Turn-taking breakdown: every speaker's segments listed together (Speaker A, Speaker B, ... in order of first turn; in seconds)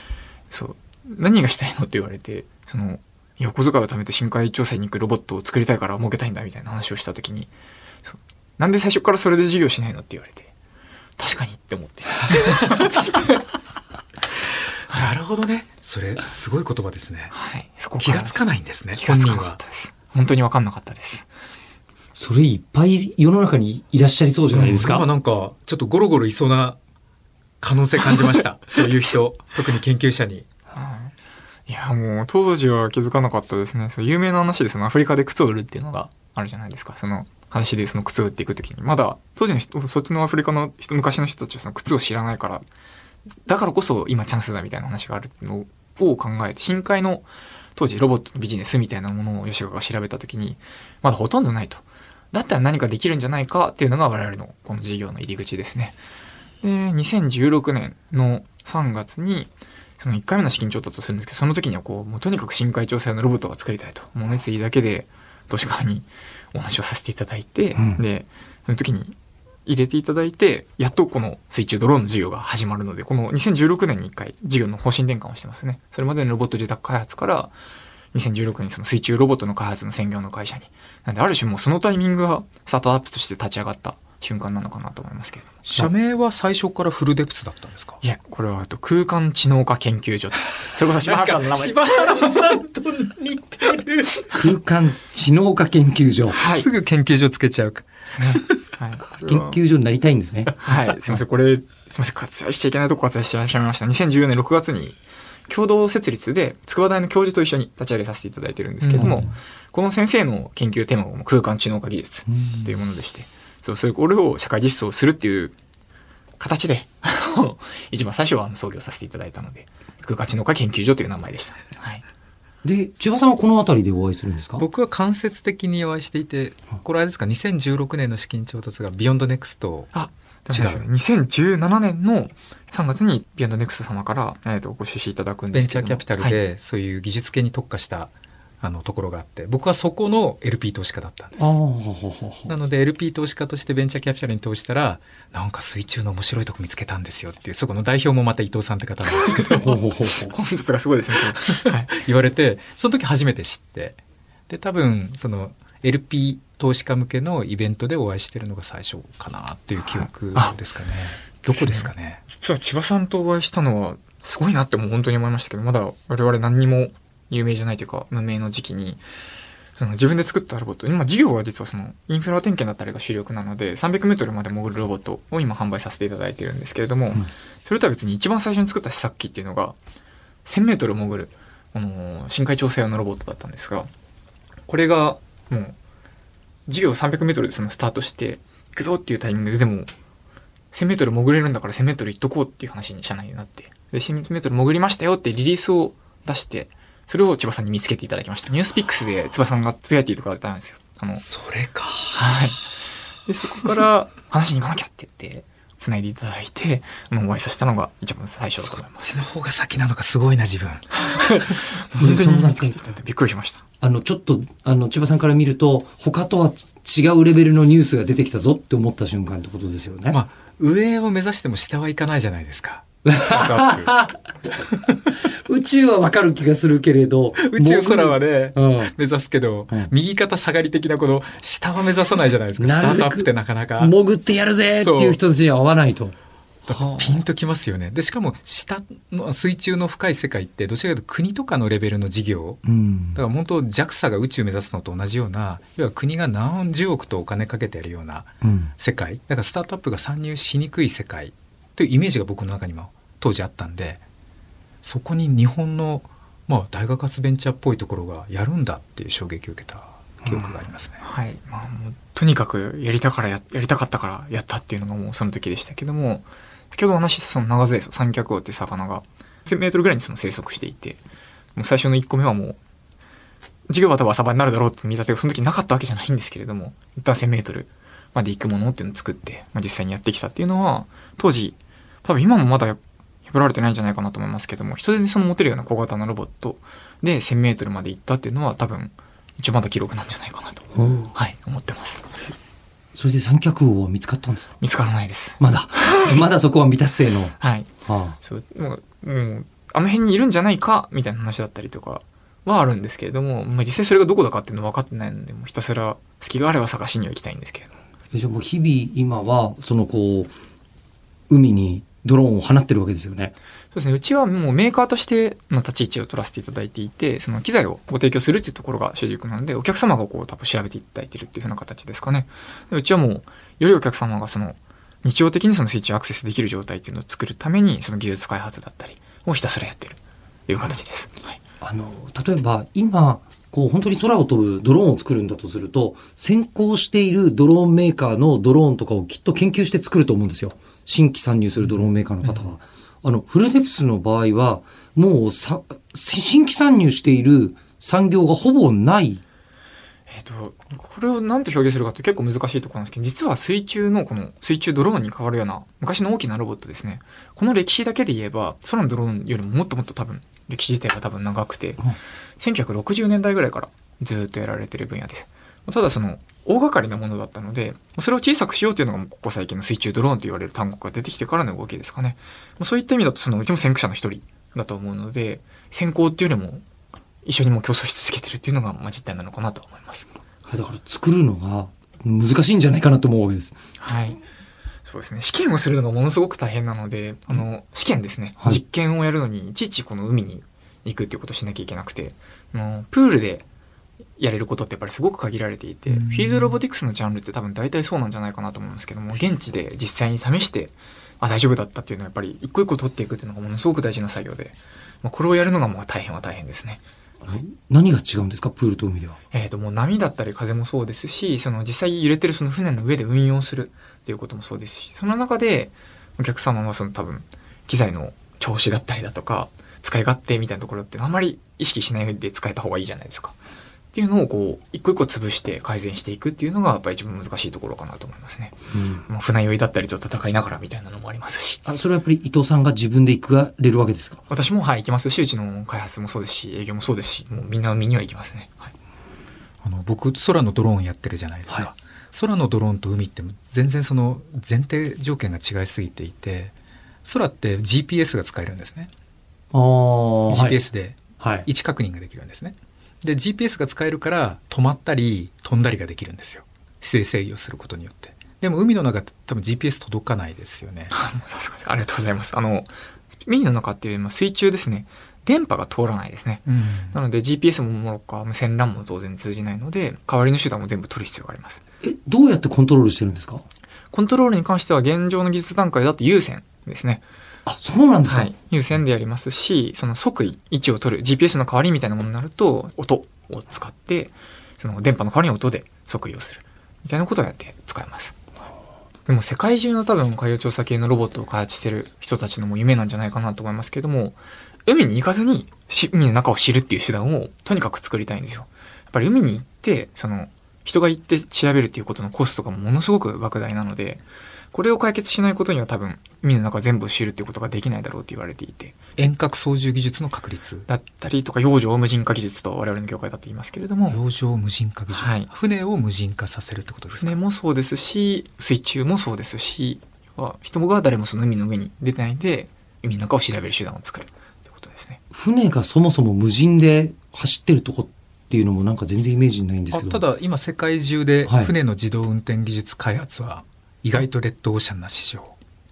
Speaker A: 0.5-7.5, 8.0-10.5, 11.2-13.4, 17.3-21.3, 30.7-31.1, 31.7-42.6, 43.5-56.0, 56.6-77.5, 78.1-85.6, 88.0-92.5, 96.3-96.7, 98.1-99.6, 100.6-115.5, 116.4-122.0, 129.9-136.4, 149.2-149.6, 150.2-151.9, 159.8-160.6, 161.5-169.0, 169.8-179.8, 180.4-183.9, 184.7-185.8, 186.7-189.9, 190.7-201.2, 202.1-202.6, 203.3-209.1, 211.0-213.6, 261.0-271.0, 271.6-272.6, 273.7-292.1, 294.6-296.2, 297.4-307.8, 313.7-331.4, 350.1-376.6, 377.2-380.1, 383.8-384.2, 384.8-393.4, 394.2-406.8, 409.3-423.4, 423.9-431.6, 434.3-438.7, 460.9-471.6, 473.9-477.0, 478.1-488.1, 489.1-509.1, 510.7-514.0, 514.9-515.3, 517.0-525.0
Speaker B: 14.9-17.3, 18.0-19.6, 24.5-26.8, 27.6-30.5, 85.7-88.0, 91.0-94.3, 96.4-98.5, 108.8-109.3, 124.6-129.9, 130.5-130.8, 135.5-141.4, 142.5-149.8, 151.6-154.0, 154.5-162.2, 201.2-202.2, 208.6-211.0, 220.1-223.9, 227.4-233.9, 234.8-235.2, 236.7-242.6, 243.2-254.0, 254.8-261.0, 395.9-396.5, 439.6-446.5, 447.0-448.9, 450.3-460.9, 466.5-466.9, 509.0-510.7, 513.9-517.1, 529.7-535.3
Speaker C: 22.2-25.1, 94.3-96.4, 99.1-100.5, 109.0-109.2, 122.6-124.7, 141.4-142.5, 149.6-150.3, 212.0-212.8, 213.8-220.2, 223.1-224.2, 224.9-228.9, 232.6-236.2, 236.7-237.2, 242.7-243.2, 248.4-248.7, 260.2-260.5, 290.7-291.1, 292.9-294.6, 295.4-298.2, 308.1-310.3, 311.3-313.3, 331.6-349.2, 380.5-383.6, 407.2-409.2, 428.7-429.1, 431.6-434.2, 449.5-450.6, 451.2-451.4, 471.8-473.4, 477.5-478.3, 525.1-530.0, 531.3-531.5